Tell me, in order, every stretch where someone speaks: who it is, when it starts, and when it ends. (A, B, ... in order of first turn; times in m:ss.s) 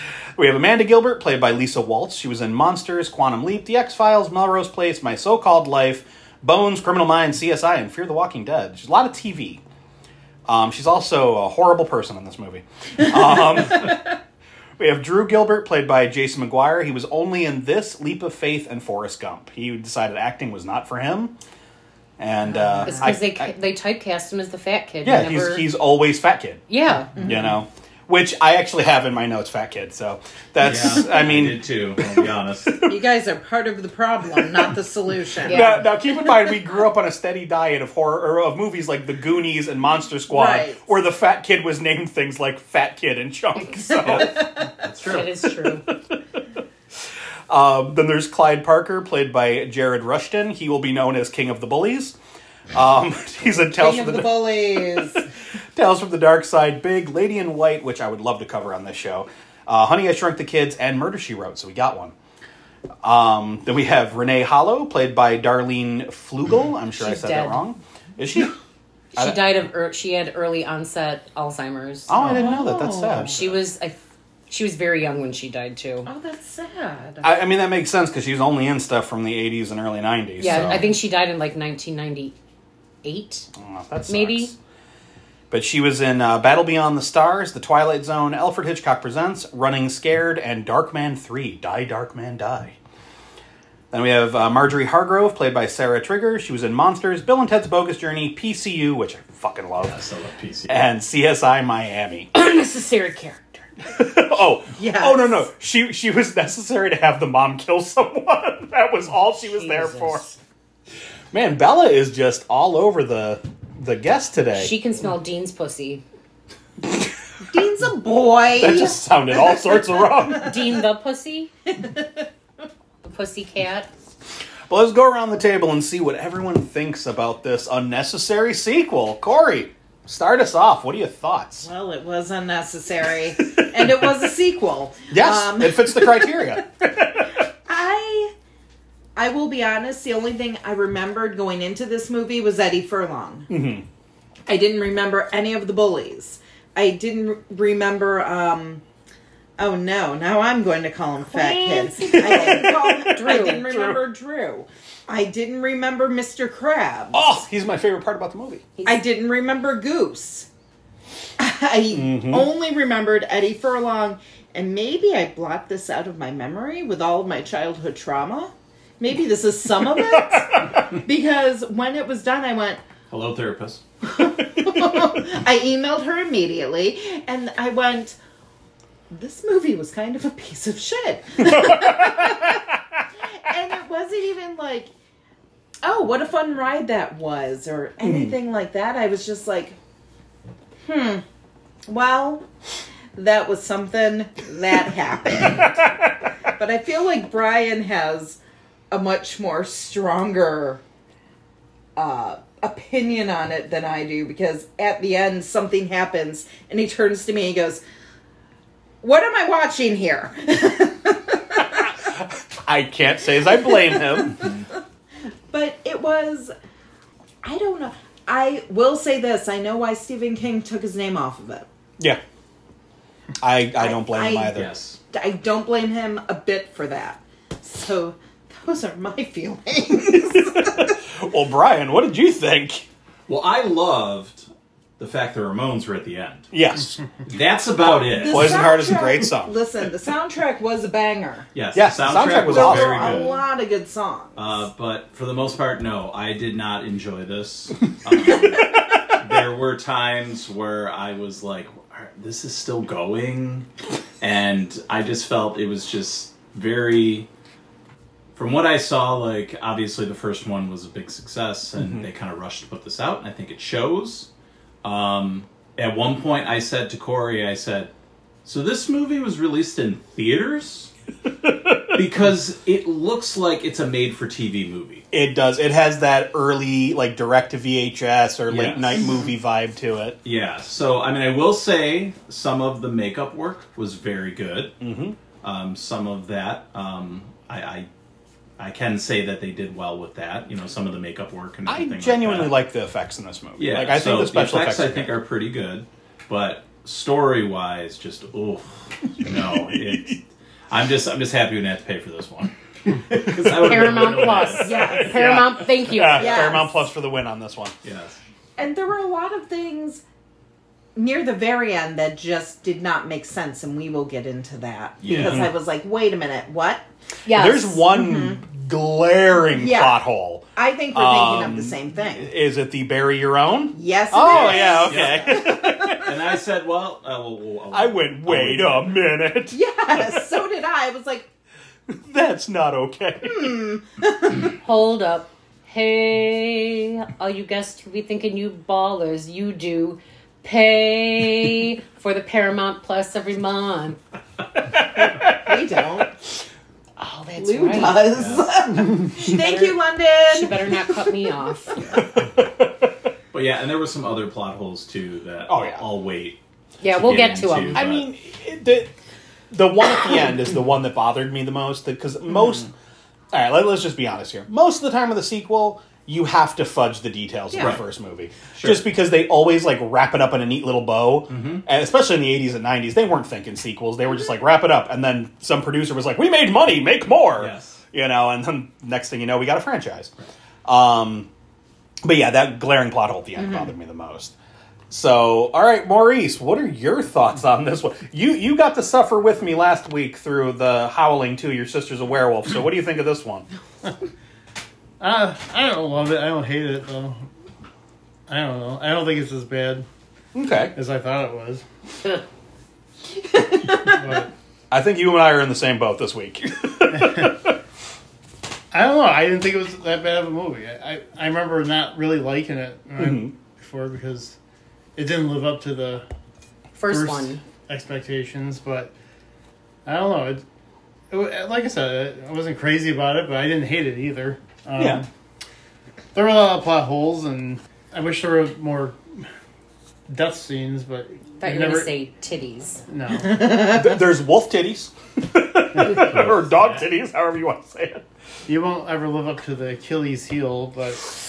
0:00.4-0:09.6 A
0:10.5-0:14.1 A
0:14.8-0:21.4 A
0:22.2-0:23.5 A
0:22.8-0:25.7 B
0:25.0-0:26.6 A
0:26.7-0:27.1 B
0:27.2-0:33.0 A
0:27.2-0:27.5 C
0:30.6-0:32.8 D
0:32.9-0:35.7 C
0:34.4-0:34.7 A
0:35.4-0:35.9 B
0:35.5-0:44.4 A
0:40.3-0:40.9 C
0:44.0-0:45.3 D
0:45.0-0:45.8 B
0:45.9-0:46.1 A
0:47.5-0:52.2 A
0:52.7-0:55.1 A
0:53.7-0:55.2 C
0:55.8-1:02.1 A
1:03.0-1:08.6 A
1:07.0-1:07.6 B
1:09.1-1:14.0 B
1:12.1-1:13.6 A
1:12.2-1:13.4 C
1:14.5-1:16.1 B
1:16.1-1:17.4 C
1:17.2-1:20.9 A
1:20.4-1:22.3 B
1:23.0-1:23.5 B
1:23.6-1:24.6 A
1:24.1-1:24.5 B
1:25.5-1:32.8 A
1:33.9-1:40.0 A
1:39.8-1:40.9 D
1:40.7-1:42.3 A
1:42.3-1:43.6 B
1:43.9-1:50.2 A
1:44.8-1:45.4 C
1:49.4-1:50.4 B
1:51.3-1:54.7 A
1:54.6-1:56.0 B
1:57.5-1:59.0 C
1:58.6-2:00.5 A
2:00.4-2:01.5 B
2:01.8-2:02.2 C
2:03.0-2:03.9 B
2:04.7-2:11.7 A
2:11.6-2:16.5 C
2:13.4-2:14.1 A
2:15.1-2:17.3 A
2:17.7-2:18.3 C
2:19.2-2:23.5 C
2:23.5-2:23.9 A
2:24.5-2:28.8 C
2:29.6-2:37.3 C
2:31.2-2:33.7 B
2:32.1-2:34.0 A
2:37.1-2:38.7 A
2:38.8-2:39.0 B
2:38.9-2:40.5 C
2:41.4-2:52.8 C
2:41.9-2:42.5 A
2:53.1-2:53.8 D
2:54.0-2:58.2 C
2:59.1-3:02.6 C
3:01.6-3:01.9 A
3:03.4-3:04.9 C
3:05.8-3:09.8 C
3:10.8-3:11.2 C
3:11.9-3:12.4 C
3:13.2-3:18.4 C
3:18.9-3:20.8 C
3:22.0-3:27.8 C
3:29.0-3:31.8 C
3:31.9-3:34.5 A
3:35.5-3:36.5 C
3:37.4-3:41.7 C
3:43.4-3:44.8 A
3:43.8-3:44.6 C
3:44.5-3:45.0 D
3:45.1-3:50.9 C
3:50.1-3:52.9 A
3:53.3-3:56.5 D
3:56.5-3:57.0 A
3:57.3-3:58.7 D
3:58.1-4:01.5 C
3:58.2-3:59.6 A
4:01.6-4:03.4 D
4:01.8-4:03.3 A
4:02.1-4:04.6 C
4:04.4-4:13.7 D
4:14.2-4:17.3 D
4:18.4-4:24.3 D
4:24.8-4:27.9 D
4:28.4-4:30.9 D
4:31.4-4:32.0 A
4:31.9-4:35.0 D
4:35.1-4:40.2 A
4:38.5-4:39.1 D
4:39.0-4:39.3 C
4:40.2-4:44.8 D
4:44.8-4:45.2 A
4:45.4-4:47.9 D
4:48.6-4:52.5 D
4:51.7-4:55.2 A
4:53.6-5:04.8 D
4:59.7-5:00.1 A
5:03.1-5:07.8 A
5:03.5-5:06.8 B
5:04.6-5:05.2 C
5:06.2-5:06.6 C
5:07.8-5:08.2 D
5:08.6-5:10.0 C
5:11.0-5:16.9 C
5:15.0-5:15.5 D
5:15.1-5:15.5 A
5:17.3-5:17.8 B
5:17.3-5:26.1 A
5:17.9-5:18.4 C
5:19.5-5:20.0 C
5:20.6-5:22.3 C
5:23.7-5:26.1 C
5:24.3-5:29.0 D
5:27.7-5:30.3 A
5:29.5-5:31.3 C
5:31.9-5:33.6 A
5:33.3-5:34.4 C
5:34.6-5:44.0 B
5:45.0-5:46.1 C
5:47.0-5:48.1 B
5:47.4-5:51.0 C
5:48.1-5:48.5 D
5:49.2-5:51.8 B
5:52.1-5:52.9 A
5:53.3-5:58.0 D
5:55.5-5:55.8 A
5:56.8-5:57.9 B
5:57.8-5:58.9 A
5:59.5-6:02.7 A
6:03.3-6:20.1 A
6:08.5-6:08.8 D
6:11.3-6:11.6 D
6:17.4-6:17.8 D
6:20.7-6:21.3 A
6:22.0-6:24.3 A
6:24.9-6:33.5 A
6:35.0-6:37.2 E
6:38.3-6:39.8 E
6:40.4-6:40.7 A
6:40.7-6:41.6 E
6:43.2-6:44.0 C
6:43.9-6:44.3 E
6:44.7-6:47.6 A
6:46.9-6:47.3 E
6:48.7-6:54.4 E
6:53.0-6:53.3 A
6:55.0-6:56.0 E
6:56.8-6:57.4 B
6:56.9-6:58.9 E
6:59.8-7:00.4 E
7:01.1-7:05.1 E
7:04.8-7:05.0 A
7:06.1-7:09.0 E
7:10.1-7:11.9 E
7:11.4-7:12.8 B
7:12.9-7:13.6 E
7:13.6-7:18.0 A
7:15.8-7:16.1 E
7:15.9-7:16.9 D
7:18.5-7:21.2 E